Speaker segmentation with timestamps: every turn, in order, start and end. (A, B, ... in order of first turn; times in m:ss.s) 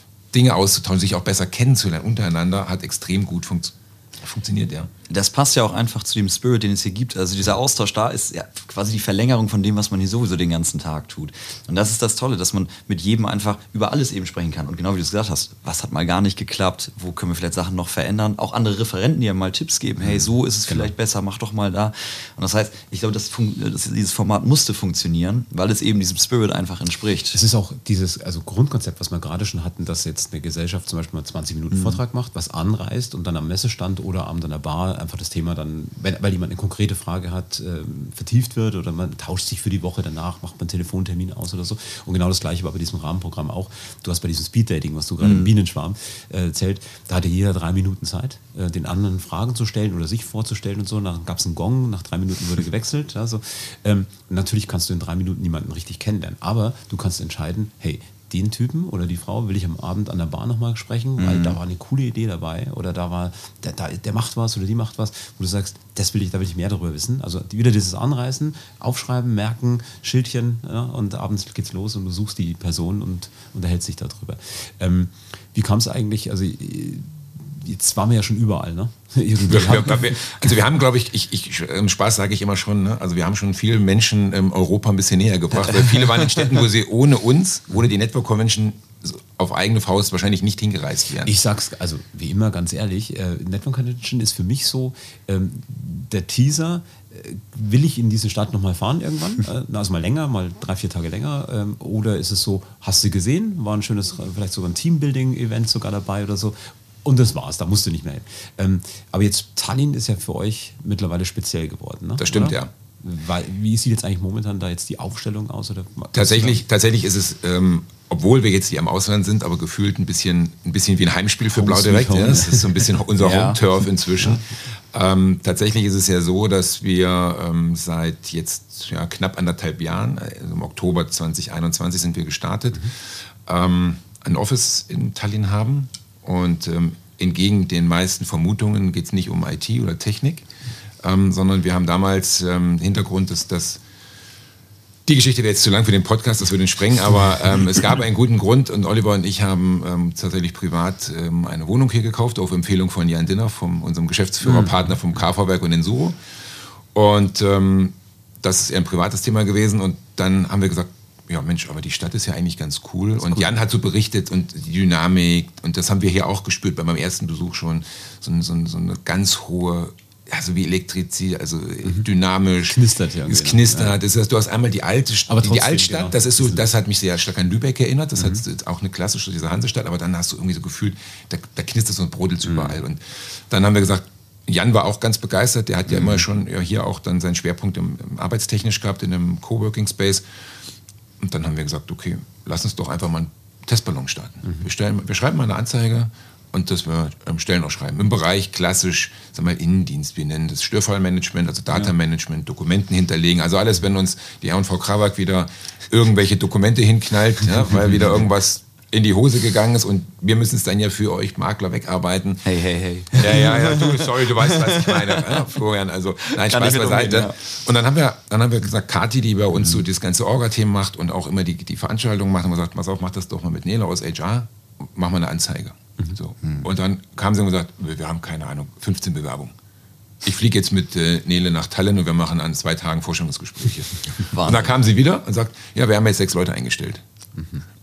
0:00.3-0:04.9 A
0:05.1-0:27.4 B
0:20.0-0:20.9 C
0:27.3-1:20.2 C
0:31.7-0:32.0 B
0:45.2-0:45.5 B
1:01.2-1:01.6 B
1:19.4-1:31.3 A
1:31.2-1:56.6 C
1:52.2-1:52.7 A
1:56.1-2:12.9 A
2:01.5-2:02.9 C
2:03.2-2:03.6 B
2:13.4-2:20.5 A
2:21.0-2:23.8 A
2:25.1-2:36.2 A
2:36.9-3:10.2 A
2:52.7-2:54.0 C
2:55.3-2:56.6 C
3:02.4-3:02.8 C
3:11.2-3:32.4 A
3:32.4-3:35.4 B
3:33.1-3:49.5 A
3:36.3-3:37.3 B
3:50.2-3:57.0 A
3:54.3-3:54.7 B